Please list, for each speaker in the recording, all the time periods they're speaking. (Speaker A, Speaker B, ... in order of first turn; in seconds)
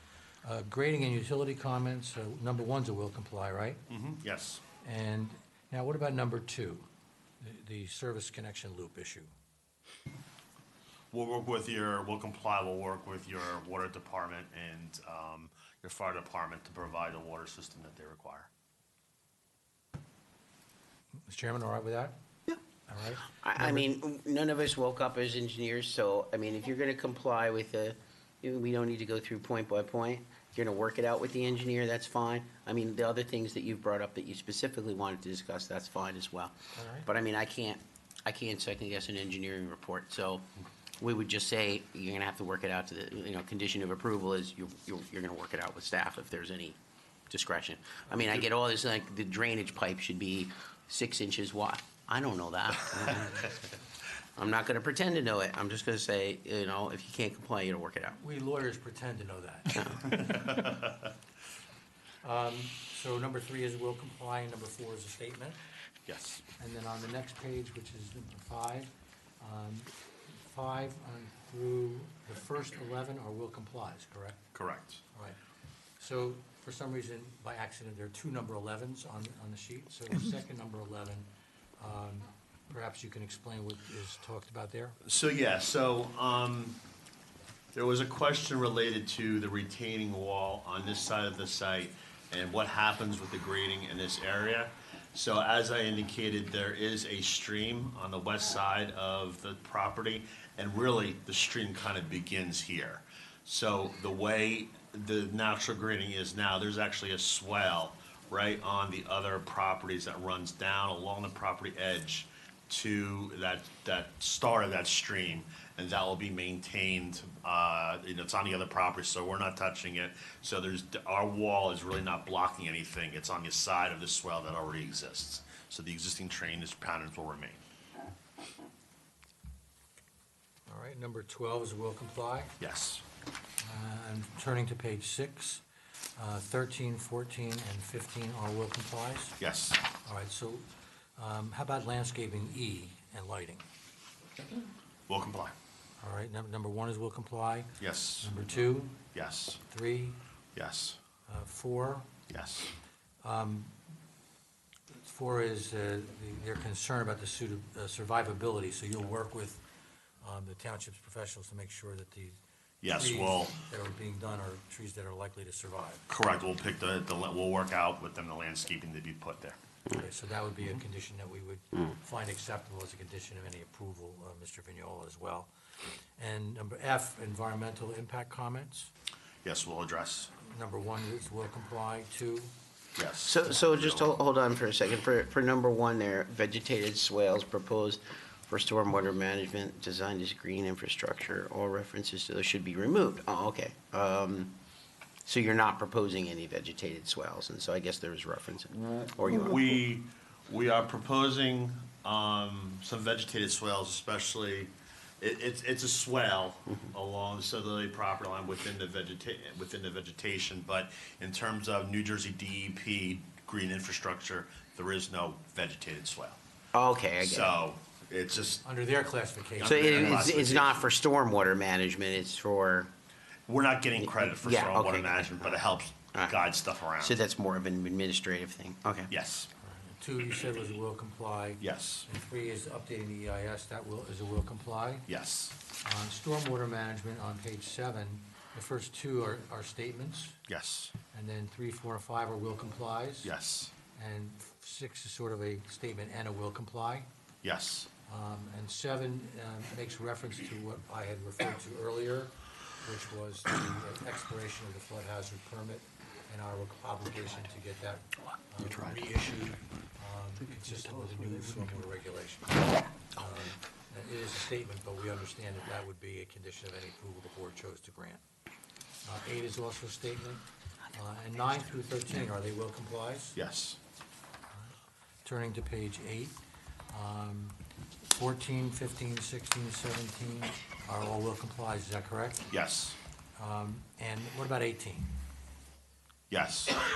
Speaker A: 0.4-3.8, 4.8-6.9, 7.4-9.3, 21.2-22.2, 22.9-23.9, 36.8-37.1, 58.2-60.5, 62.2-65.6, 66.6-74.5, 76.0-85.0, 130.7-132.6, 133.6-135.6, 136.2-139.4, 139.9-140.7, 141.2-143.7, 146.0-149.0, 149.7-150.2, 151.3-152.1, 153.2-153.8, 154.9-159.6, 160.2-162.4, 162.9-166.0, 169.9-175.5, 176.2-178.9, 180.4-182.5, 218.6-220.3, 229.6-235.1, 235.8-240.4, 241.1-243.3, 243.9-247.1, 248.1-268.2, 269.0-273.4, 274.5-276.4, 276.9-282.5, 283.4-285.1
Speaker B: 3.9-4.6, 11.1-18.5, 60.2-60.9, 66.1-66.4, 74.5-75.0, 85.0-86.8, 87.7-127.6, 132.6-133.0, 139.4-139.8, 145.1-145.5, 147.8-148.3, 149.1-149.6, 150.6-151.0, 152.3-152.7, 162.8-163.6, 166.1-169.6, 179.4-180.3, 183.0-184.1, 199.3-216.4, 217.2-218.6, 219.6-220.9, 223.5-227.2, 229.1-229.5, 231.6-232.1, 235.1-235.6, 240.5-240.9, 243.2-243.7, 247.4-247.9, 258.6-259.0, 273.4-273.8, 282.5-283.0, 286.3-286.8
Speaker C: 23.4-40.5, 41.0-46.8, 47.3-53.6, 54.4-58.2, 183.2-194.6, 195.2-199.6, 216.7-217.6, 219.6-222.9, 224.0-225.6, 226.1-226.4, 227.0-229.1